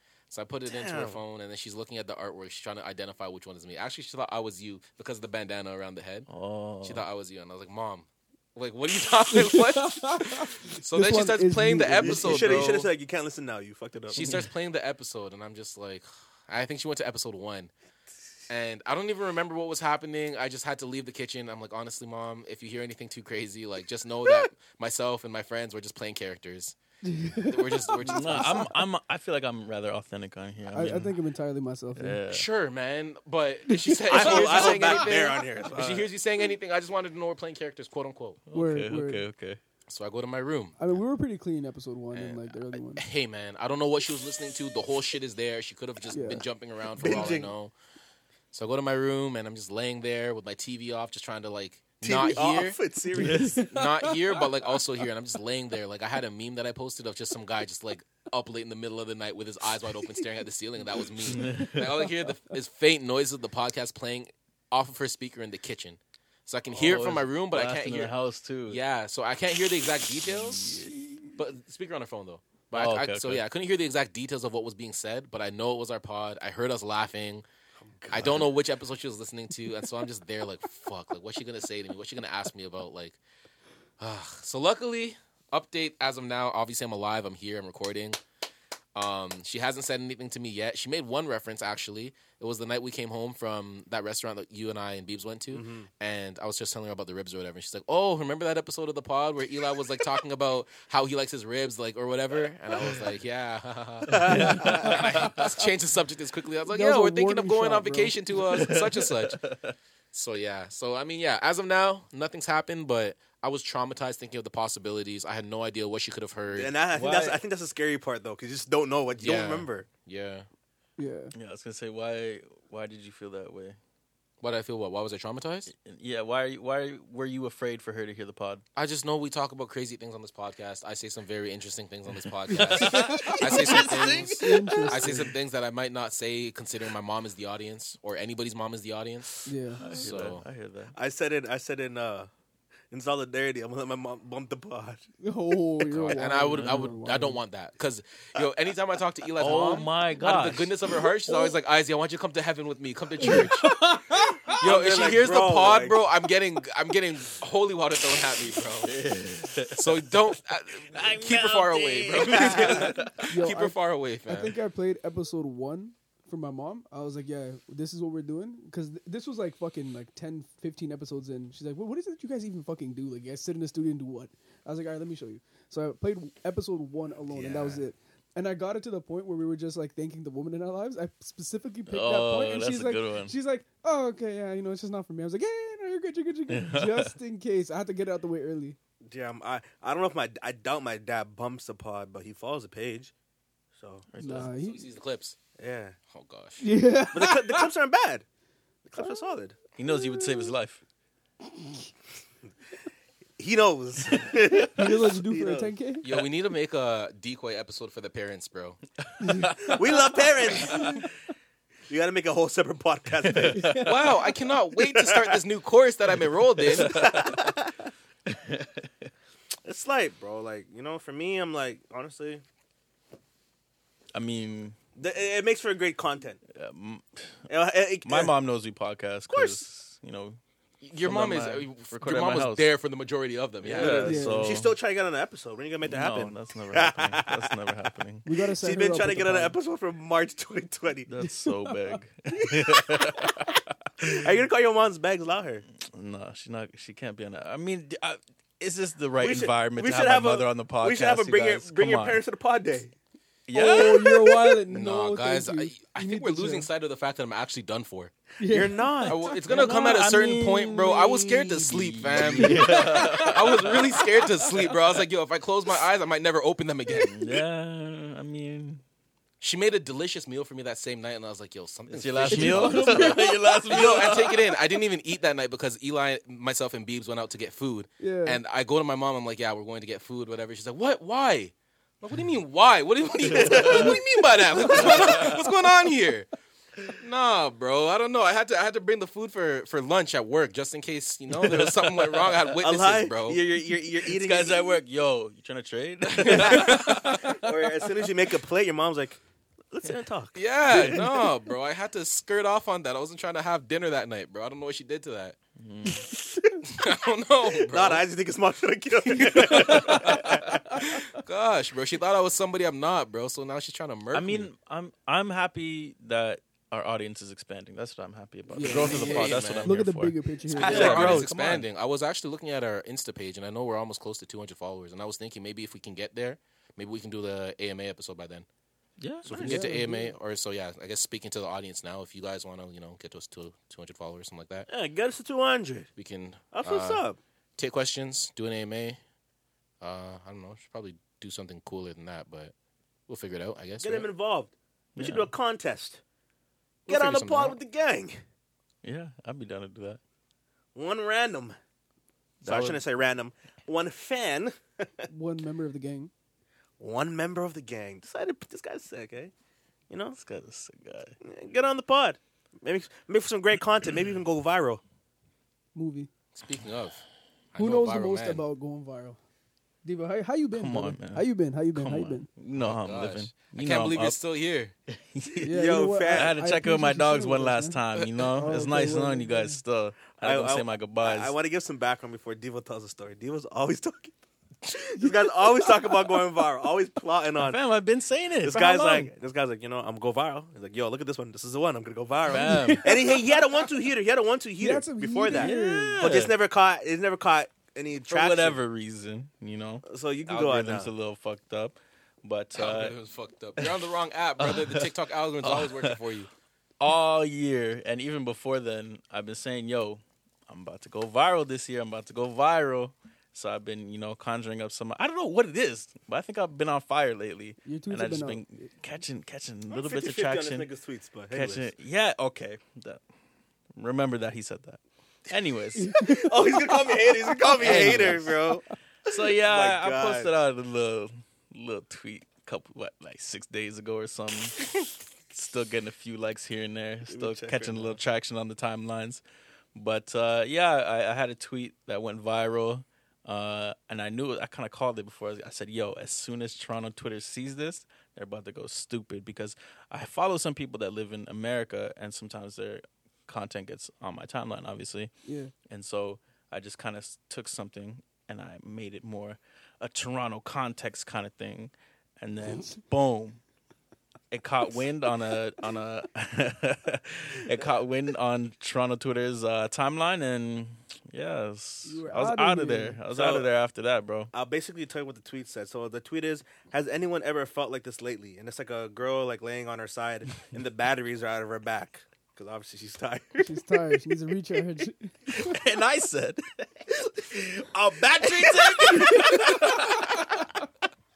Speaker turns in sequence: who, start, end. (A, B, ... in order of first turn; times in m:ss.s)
0:00.3-0:06.3 A
0:00.7-0:01.2 B
0:06.3-0:07.0 C
0:06.8-0:12.9 A
0:09.3-0:12.7 D
0:12.0-0:14.5 B
0:14.1-0:17.7 A
0:18.5-0:26.8 A
0:27.0-0:28.7 D
0:27.4-0:28.7 A
0:28.0-0:31.2 C
0:30.7-0:32.2 D
0:32.0-0:32.5 C
0:32.3-0:38.4 A
0:34.1-0:36.1 B
0:38.5-0:39.6 C
0:38.5-0:39.3 D
0:39.9-0:40.8 A
0:40.8-0:43.0 D
0:42.1-0:47.7 A
0:46.1-0:46.4 D
0:47.0-0:47.5 B
0:48.5-0:52.8 A
0:52.0-0:53.7 B
0:53.2-0:53.7 C
0:53.7-1:08.1 A
1:01.3-1:02.1 C
1:06.7-1:08.8 C
1:08.7-1:10.7 A
1:10.3-1:11.4 C
1:11.4-1:17.5 A
1:12.7-1:13.4 C
1:18.1-1:18.3 C
1:18.1-1:23.2 A
1:24.0-1:28.2 A
1:29.0-1:49.4 A
1:35.5-1:35.9 B
1:44.2-1:45.0 B
1:44.2-1:45.5 C
1:46.7-1:48.2 D
1:48.4-1:49.8 C
1:50.1-1:56.7 A
1:56.5-1:59.9 B
1:56.9-1:57.4 C
1:59.2-2:00.5 A
2:01.0-2:01.3 D
2:01.4-2:03.8 C
2:04.4-2:05.7 A
2:05.7-2:08.6 C
2:08.8-2:20.4 A
2:12.5-2:15.3 C
2:12.9-2:13.9 D
2:14.4-2:15.3 D
2:19.5-2:20.0 D
2:19.8-2:21.0 C
2:20.9-2:22.3 B
2:22.9-2:25.1 B
2:25.2-2:27.4 D
2:25.9-2:33.8 A
2:26.5-2:26.9 C
2:29.4-2:30.8 C
2:33.3-2:34.6 C
2:34.6-2:36.0 B
2:34.6-2:38.9 A
2:38.8-2:39.9 C
2:39.8-2:44.6 A
2:40.9-2:43.3 C
2:42.6-2:42.8 B
2:43.3-3:08.8 D
2:57.3-2:57.8 B
3:01.9-3:03.4 C
3:06.5-3:07.1 C
3:09.0-3:13.1 B
3:13.8-3:14.1 B
3:14.1-3:14.6 C
3:14.2-3:14.8 D
3:14.5-3:15.4 A
3:15.6-3:16.0 B
3:16.1-3:16.6 A
3:16.6-3:17.7 D
3:17.1-3:18.2 B
3:18.9-3:19.6 B
3:19.8-3:20.8 C
3:19.9-3:20.5 D
3:23.4-3:25.7 B
3:24.7-3:26.1 D
3:26.0-3:28.8 A
3:29.1-3:29.8 C
3:29.2-3:29.5 D
3:29.6-3:31.1 B
3:31.9-3:34.1 B
3:33.2-3:33.8 C
3:33.6-3:33.9 D
3:33.8-3:36.9 A
3:34.8-3:35.4 B
3:36.7-3:37.8 B
3:36.8-3:37.4 C
3:38.3-3:39.1 C
3:39.6-3:42.4 B
3:44.1-3:44.8 C
3:45.0-3:46.4 B
3:46.5-3:47.4 C
3:47.5-3:48.4 B
3:48.0-3:50.4 C
3:49.3-3:49.6 B
3:50.8-3:54.1 A
3:51.0-3:52.7 C
3:53.6-3:54.8 C
3:53.7-3:57.6 B
3:54.0-3:54.6 D
3:55.8-3:58.2 C
3:58.2-3:59.6 D
3:58.6-4:01.1 B
4:01.1-4:04.2 C
4:01.2-4:02.0 D
4:04.1-4:05.6 B
4:05.8-4:12.2 C
4:09.2-4:12.9 B
4:13.5-4:14.4 C
4:13.5-4:16.7 D
4:14.7-4:18.1 A
4:18.4-4:19.2 D
4:18.5-4:19.2 B
4:19.1-4:27.1 A
4:19.4-4:24.8 C
4:22.4-4:23.4 D
4:27.0-4:28.8 C
4:29.4-4:46.3 A
4:31.9-4:34.6 C
4:32.3-4:34.0 D
4:38.0-4:38.4 D
4:43.2-4:44.0 C
4:43.4-4:44.0 B
4:44.6-4:45.5 C
4:46.8-4:53.4 A
4:51.4-4:52.3 C
4:52.6-4:54.8 B
4:54.0-4:57.5 C
4:56.2-4:59.2 B
4:56.2-4:57.2 A
4:59.7-5:01.0 B
5:00.4-5:05.4 A
5:00.8-5:01.0 C
5:05.6-5:06.1 C
5:06.7-5:08.0 A
5:07.6-5:10.6 B
5:09.2-5:14.5 A
5:09.2-5:10.5 C
5:14.1-5:21.7 C
5:18.5-5:21.0 D
5:18.6-5:19.8 A
5:20.6-5:28.5 A
5:20.6-5:21.3 B
5:29.0-5:29.8 C
5:29.2-5:34.7 A
5:29.4-5:30.1 D
5:34.7-5:35.9 B
5:36.0-5:37.0 A
5:36.5-5:37.2 B
5:37.6-5:39.0 A
5:39.8-5:42.5 A
5:43.1-5:44.1 A
5:43.8-5:46.0 B
5:45.0-5:45.3 C
5:46.9-5:48.2 B
5:46.9-5:47.6 A
5:48.8-5:50.0 C
5:50.8-5:51.6 B
5:52.4-5:52.8 C
5:52.4-5:54.9 B
5:55.1-5:56.1 D
5:56.8-5:59.3 B
5:59.9-6:00.2 B
6:00.2-6:01.2 C
6:01.2-6:04.8 B
6:05.8-6:06.1 D
6:06.4-6:08.4 A
6:07.6-6:09.2 D
6:09.8-6:12.3 D
6:10.5-6:14.2 C
6:12.6-6:14.7 A
6:14.9-6:15.5 C
6:15.4-6:19.6 D
6:15.5-6:16.4 B
6:16.1-6:21.3 C
6:20.2-6:24.1 B
6:24.7-6:27.6 B
6:27.4-6:29.1 C
6:28.4-6:38.6 B
6:32.2-6:33.2 C
6:34.6-6:36.0 D
6:35.3-6:36.3 C
6:38.1-6:43.0 C
6:39.9-6:40.9 B
6:42.6-6:46.3 A
6:44.4-6:46.0 C
6:46.8-7:00.7 C
6:57.6-6:58.7 D
6:59.7-7:01.7 B
7:01.3-7:03.0 C
7:03.8-7:06.0 C
7:05.8-7:06.8 D
7:06.0-7:10.3 B
7:07.3-7:08.0 D
7:07.6-7:08.5 C
7:09.1-7:14.7 C
7:15.3-7:19.2 C
7:17.1-7:18.0 B
7:19.8-7:35.1 C
7:35.2-7:35.5 D
7:35.7-7:43.4 C
7:42.4-7:42.8 D
7:44.3-7:54.3 C
7:51.8-7:53.0 D
7:53.2-7:53.5 B
7:54.3-8:03.5 B
8:03.4-8:05.5 D
8:05.3-8:06.7 C
8:07.3-8:10.6 C
8:08.2-8:09.6 B